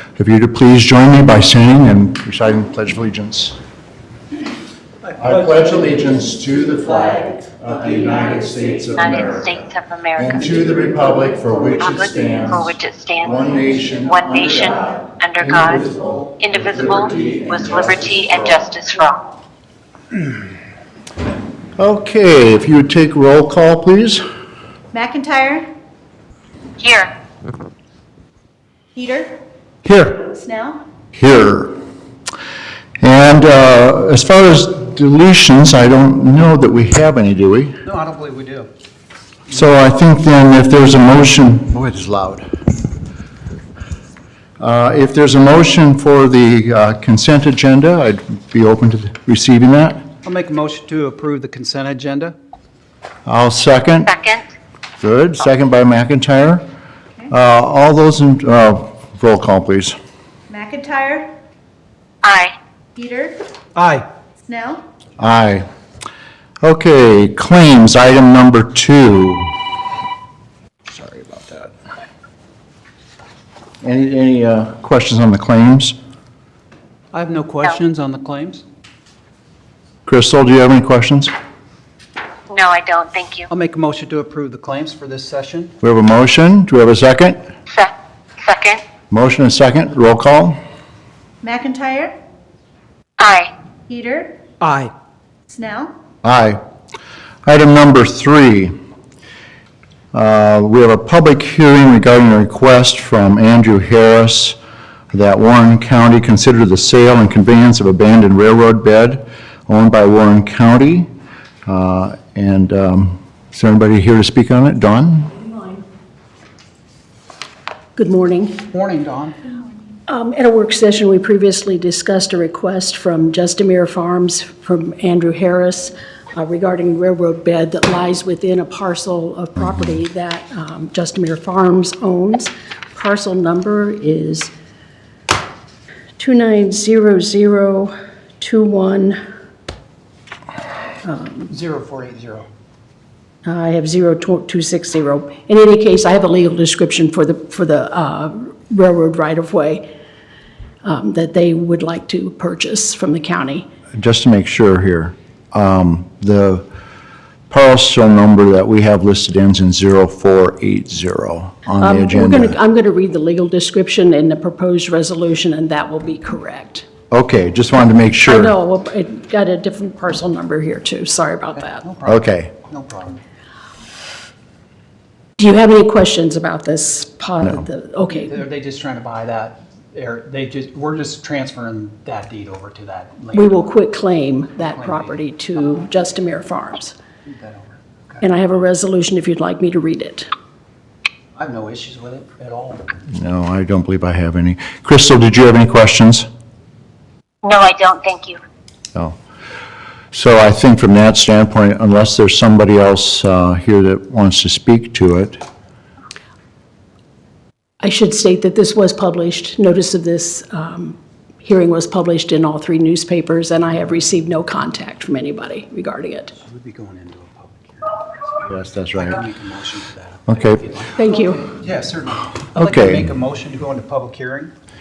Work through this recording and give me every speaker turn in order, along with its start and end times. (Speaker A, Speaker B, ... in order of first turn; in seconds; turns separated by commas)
Speaker A: 0.2-3.6, Speaker A: 5.1-9.6, Speaker B: 8.9-10.4, Speaker A: 10.2-12.7, Speaker B: 11.7-13.4, Speaker A: 13.2-17.5, Speaker B: 14.0-19.2, Speaker A: 21.8-24.2, Speaker C: 24.9-25.7, Speaker B: 26.8-27.1, Speaker C: 28.9-29.4, Speaker A: 29.8-30.1, Speaker C: 30.2-30.9, Speaker A: 31.1-31.7, Speaker A: 33.0-37.8, Speaker D: 37.8-38.7, Speaker A: 39.5-42.4, Speaker A: 44.6-50.0, Speaker D: 50.2-52.4, Speaker A: 53.2-54.1, Speaker B: 54.0-54.4, Speaker A: 55.0-56.6, Speaker A: 57.3-60.0, Speaker C: 60.5-61.3, Speaker B: 62.2-62.5, Speaker C: 63.0-63.4, Speaker D: 63.8-64.1, Speaker C: 64.4-64.8, Speaker A: 65.2-65.7, Speaker A: 66.6-69.5, Speaker A: 70.9-71.7, Speaker A: 73.8-76.0, Speaker D: 77.1-78.6, Speaker A: 80.0-81.3, Speaker B: 82.5-83.5, Speaker D: 83.5-85.7, Speaker A: 85.8-87.4, Speaker B: 87.7-88.8, Speaker A: 89.1-90.6, Speaker C: 91.4-92.1, Speaker B: 93.2-93.5, Speaker C: 93.9-94.5, Speaker D: 94.6-94.9, Speaker C: 95.5-95.9, Speaker A: 96.2-96.6, Speaker A: 97.5-98.8, Speaker A: 100.1-104.6, Speaker A: 105.1-111.1, Speaker A: 111.7-115.4, Speaker E: 118.0-118.6, Speaker D: 118.7-119.5, Speaker E: 120.1-134.5, Speaker E: 136.2-139.2, Speaker E: 141.0-141.5, Speaker D: 141.5-142.5, Speaker E: 143.4-149.9, Speaker E: 150.8-153.7, Speaker A: 153.9-156.7, Speaker A: 157.5-162.6, Speaker E: 161.8-166.9, Speaker A: 167.1-168.5, Speaker E: 168.2-171.8, Speaker D: 171.6-173.2, Speaker A: 172.1-172.5, Speaker E: 175.4-178.4, Speaker D: 178.1-183.6, Speaker E: 183.3-186.9, Speaker D: 184.6-185.2, Speaker D: 187.2-188.2, Speaker E: 188.2-190.3, Speaker D: 191.3-192.9, Speaker A: 193.1-196.3, Speaker B: 197.4-198.4, Speaker A: 200.1-205.4, Speaker E: 207.8-216.3, Speaker D: 216.4-218.0, Speaker A: 218.4-219.2, Speaker D: 218.9-224.5, Speaker A: 220.3-220.6, Speaker E: 220.9-221.4, Speaker A: 222.6-223.0